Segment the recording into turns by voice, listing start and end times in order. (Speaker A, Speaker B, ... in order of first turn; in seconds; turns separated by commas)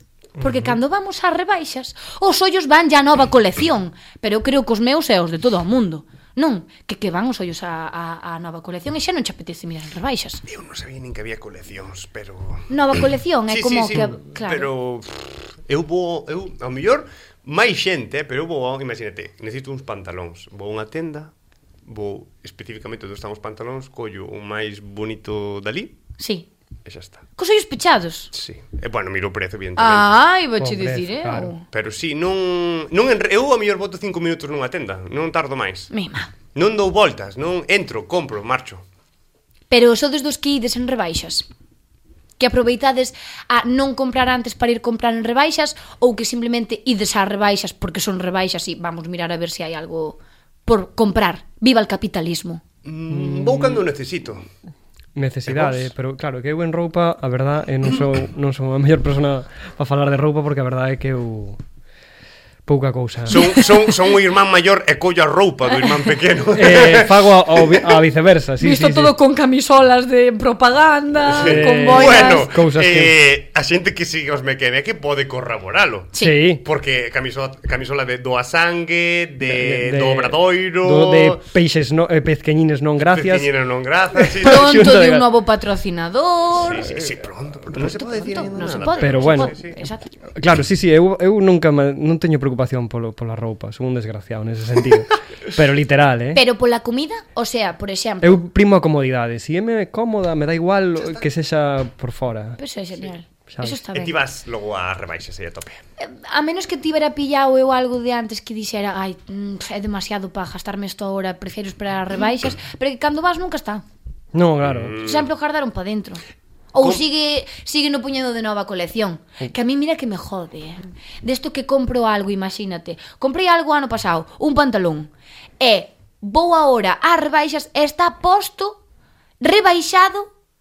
Speaker A: 0.4-10.4, Speaker B: 10.5-12.7, Speaker A: 12.7-14.7, Speaker B: 13.5-21.3, Speaker B: 21.8-25.9, Speaker A: 26.2-26.5, Speaker B: 26.8-27.2, Speaker A: 27.4-28.3, Speaker B: 28.3-30.2, Speaker A: 29.8-31.6, Speaker C: 30.6-31.5, Speaker B: 31.7-35.9, Speaker A: 35.9-36.3, Speaker B: 36.5-38.8, Speaker A: 39.7-41.5, Speaker A: 42.4-52.6, Speaker B: 52.8-54.5, Speaker C: 53.1-53.8, Speaker C: 55.1-61.6, Speaker B: 55.5-55.9, Speaker C: 62.7-63.5, Speaker B: 63.3-68.0, Speaker A: 63.3-63.7, Speaker C: 66.5-69.1, Speaker A: 68.6-72.5, Speaker B: 71.3-81.4, Speaker C: 71.4-73.1, Speaker A: 76.1-76.4, Speaker C: 76.2-76.6, Speaker C: 79.4-83.5, Speaker B: 83.0-84.9, Speaker C: 84.2-85.3, Speaker A: 84.4-87.0, Speaker B: 86.5-89.8, Speaker A: 87.7-90.1, Speaker C: 89.0-89.5, Speaker C: 90.3-96.4, Speaker A: 96.3-98.4, Speaker C: 98.2-102.6, Speaker A: 102.6-104.2, Speaker C: 103.5-103.8, Speaker B: 103.9-105.8, Speaker A: 106.0-113.8, Speaker C: 114.3-114.9, Speaker B: 114.6-115.3, Speaker A: 115.0-116.2, Speaker A: 116.7-128.8, Speaker A: 129.4-130.3